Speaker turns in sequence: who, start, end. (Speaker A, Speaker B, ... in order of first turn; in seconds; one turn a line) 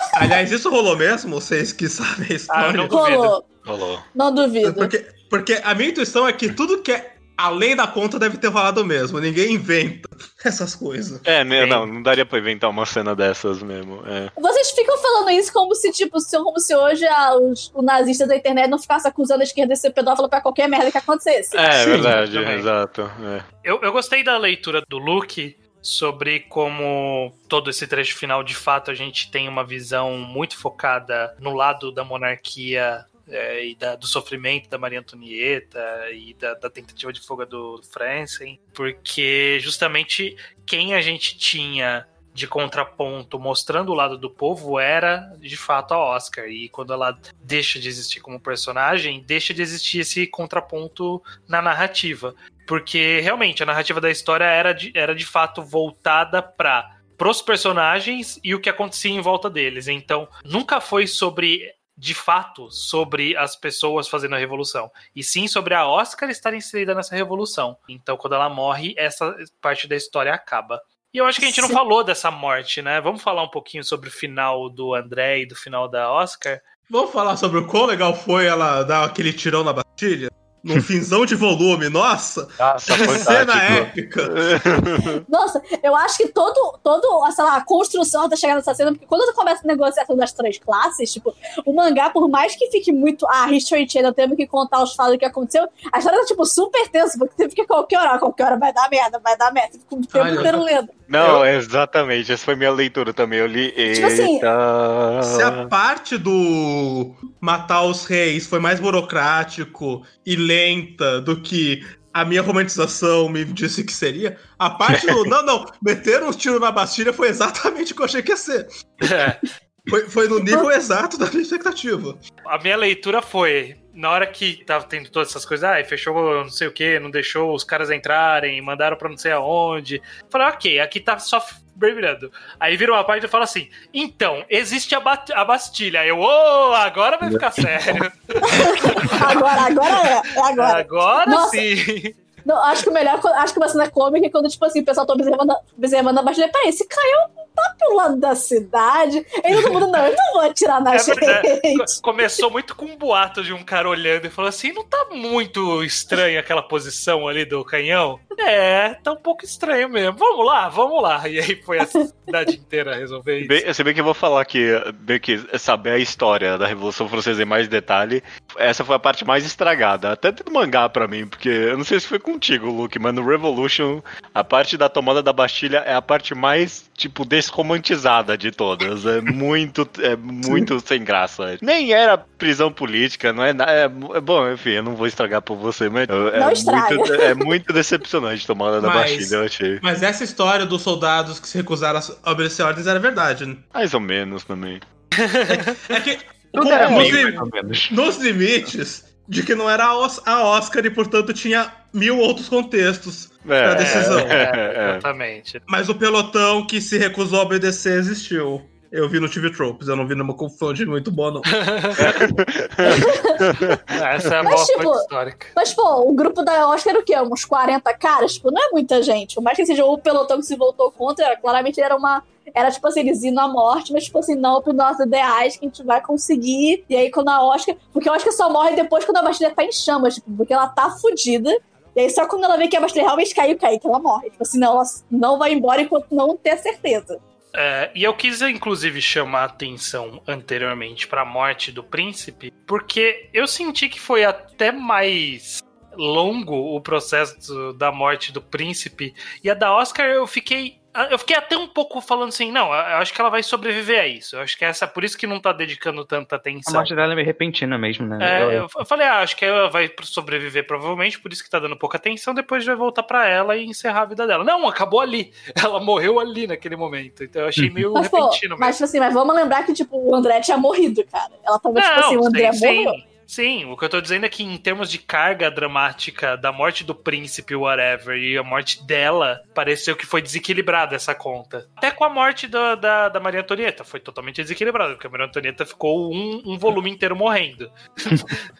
Speaker A: 0.1-3.0
Speaker B: 2.5-3.3
Speaker C: 2.9-3.5
Speaker D: 3.6-4.0
Speaker C: 4.1-4.9
Speaker A: 4.6-11.3
Speaker D: 11.2-14.3
Speaker B: 11.6-11.9
Speaker C: 14.4-21.6
Speaker D: 21.5-23.4
Speaker A: 21.7-22.2
Speaker B: 22.0-22.7
Speaker B: 23.6-76.6
Speaker C: 71.4-71.8
Speaker A: 76.9-84.6
Speaker D: 82.6-85.2
Speaker C: 85.3-100.9
Speaker A: 100.1-100.6
Speaker D: 101.1-105.7
Speaker A: 101.2-101.4
Speaker C: 103.9-104.4
Speaker A: 105.2-119.0
Speaker D: 114.9-115.2
Speaker B: 119.0-119.4
Speaker A: 119.8-122.2
Speaker B: 122.5-139.6
Speaker C: 138.4-141.7
Speaker B: 140.6-142.2
Speaker C: 142.4-151.9
Speaker B: 150.9-163.6
Speaker D: 163.4-189.8
Speaker C: 186.3-187.5
Speaker A: 188.8-193.6
Speaker D: 193.7-194.8
Speaker B: 195.2-195.8
Speaker A: 195.8-204.4
Speaker E: 196.5-198.0
Speaker B: 196.7-197.2
Speaker D: 203.4-205.0
Speaker B: 203.7-205.6
Speaker A: 205.7-212.2
Speaker B: 211.5-212.0
Speaker D: 212.0-213.8
Speaker C: 212.8-213.4
Speaker B: 213.9-215.5
Speaker C: 214.4-237.2
Speaker B: 237.5-256.9
Speaker E: 256.7-258.6
Speaker B: 258.2-268.8
Speaker E: 267.6-267.9
Speaker C: 267.9-272.9
Speaker B: 271.8-288.4